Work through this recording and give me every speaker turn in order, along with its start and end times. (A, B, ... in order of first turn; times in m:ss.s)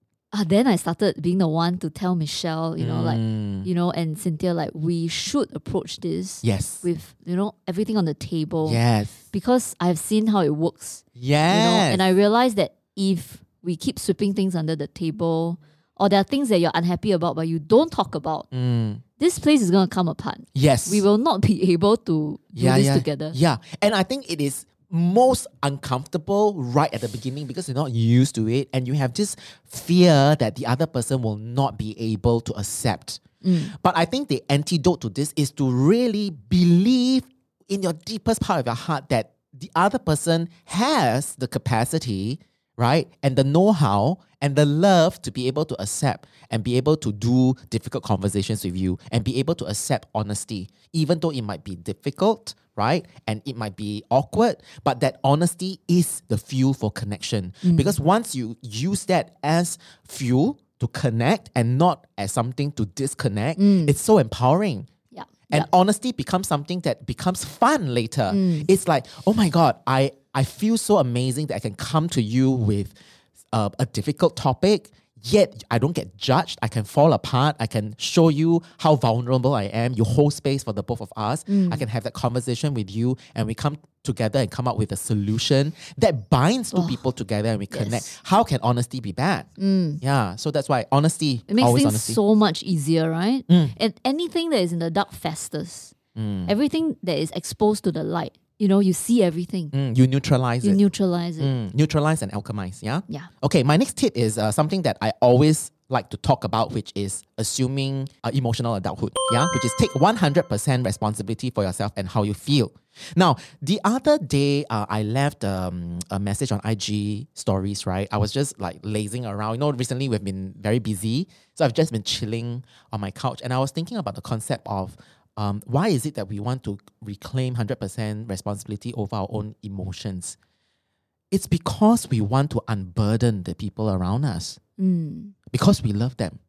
0:00.3-0:18.5 A
0:02.8-0:03.7 B
0:06.4-0:06.8 B
0:08.6-0:09.2 B
0:11.2-0:12.1 B
0:18.5-0:19.0 B
0:19.2-0:23.4 A
0:20.6-0:21.0 B
0:22.6-1:04.9 B
0:33.4-0:33.7 A
0:57.6-0:57.9 A
1:03.6-1:03.9 A
1:05.1-1:05.7 A
1:05.5-1:13.0 B
1:08.3-1:08.7 A
1:13.5-1:29.5 B
1:21.5-1:21.8 A
1:26.7-1:27.0 A
1:27.7-1:28.1 A
1:29.6-1:30.0 A
1:30.0-1:32.2 B
1:31.5-1:35.9 A
1:33.5-1:33.8 B
1:36.2-1:36.5 B
1:36.5-1:39.7 A
1:39.7-1:40.8 B
1:40.6-1:41.5 A
1:41.4-2:10.4 B
2:11.3-2:14.6 B
2:14.8-2:15.3 A
2:15.5-2:16.4 B